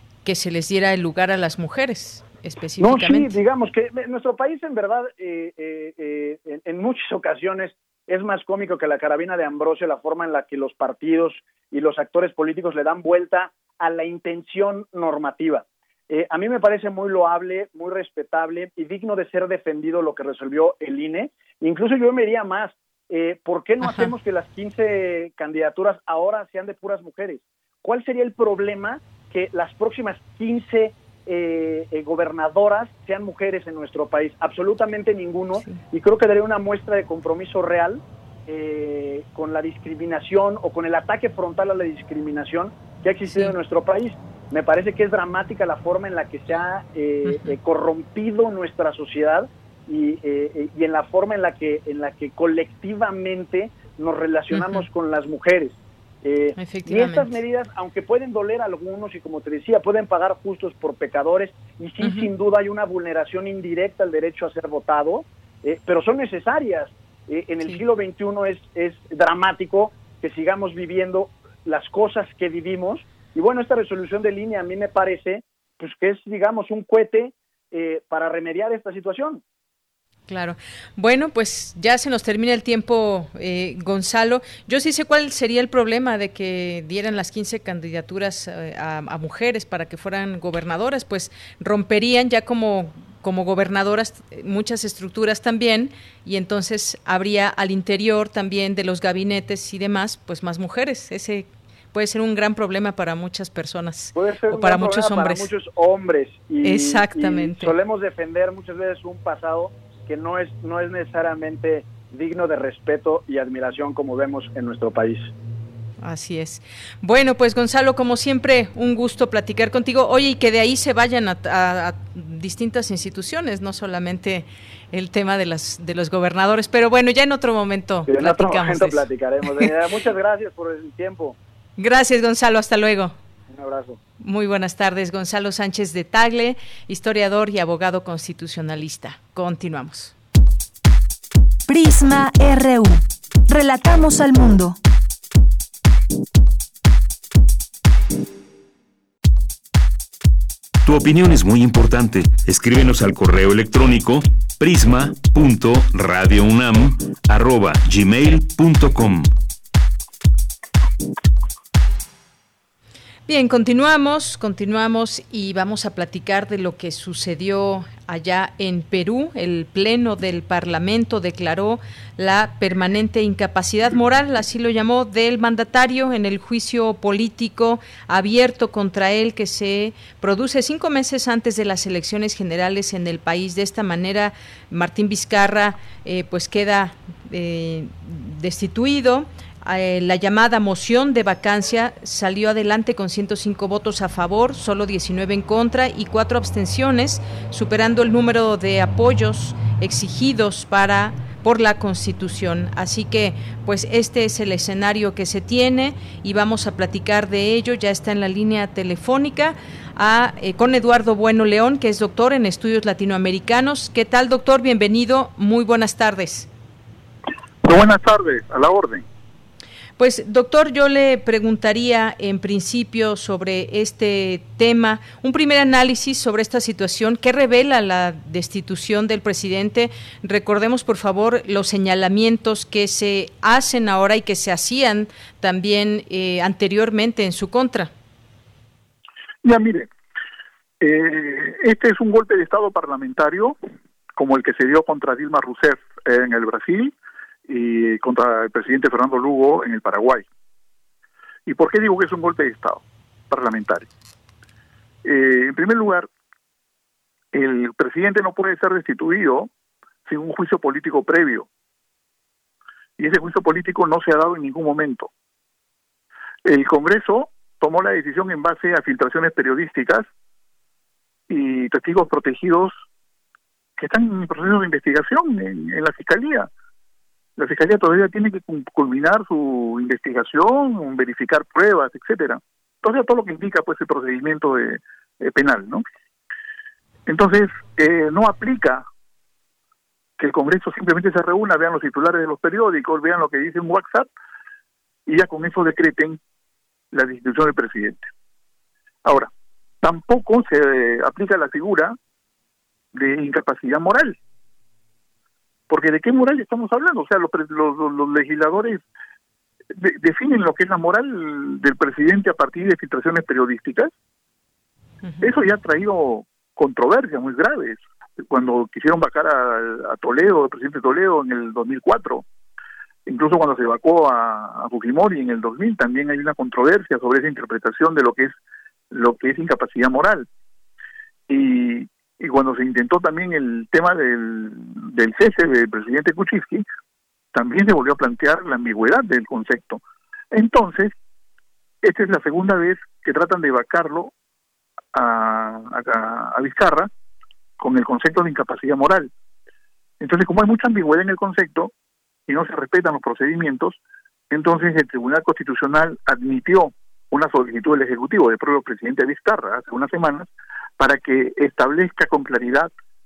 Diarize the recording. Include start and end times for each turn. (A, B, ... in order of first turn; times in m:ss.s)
0:00.2-0:03.4 A
0:02.8-1:19.4 B
0:23.8-0:24.1 A
0:43.3-0:43.5 A
0:47.3-0:47.5 A
0:54.5-0:54.8 A
0:56.6-0:57.3 A
1:02.0-1:02.3 A
1:20.3-1:45.5 A
1:44.1-1:55.3 B
1:46.6-1:47.7 A
1:56.0-2:09.0 A
2:08.1-2:11.4 B
2:11.8-2:13.2 A
2:13.5-2:14.0 B
2:14.2-2:20.1 A
2:21.7-2:24.8 C
2:30.8-2:39.3 D
2:43.3-3:36.5 A
3:37.6-3:39.0 E
3:40.0-3:57.9 A
3:59.4-3:59.9 E
4:00.8-4:03.6 E
4:04.2-4:06.9 E
4:07.5-4:10.2 E
4:11.4-4:13.9 E
4:15.0-4:16.1 E
4:17.3-4:19.5 E
4:20.1-4:21.5 E
4:23.0-4:25.1 E
4:26.4-4:30.1 E
4:31.3-4:32.7 E
4:33.8-4:36.5 E
4:37.4-4:45.8 E
4:47.1-4:48.8 E
4:50.2-4:54.1 E
4:55.0-4:56.2 E
4:56.9-4:58.0 E
4:59.0-4:59.3 E
4:59.8-5:02.0 E
5:02.9-5:04.2 E
5:05.7-5:08.8 E
5:09.8-5:13.9 E
5:15.2-5:22.2 E
5:23.0-5:28.3 E
5:28.9-5:30.3 E
5:31.3-5:36.6 E
5:37.3-5:39.8 E
5:40.3-5:40.9 E
5:41.8-5:44.1 E
5:44.9-5:46.9 E
5:47.6-5:49.1 E
5:50.0-5:51.7 E
5:52.3-5:53.8 E
5:54.3-6:00.3 E
6:00.8-6:02.7 E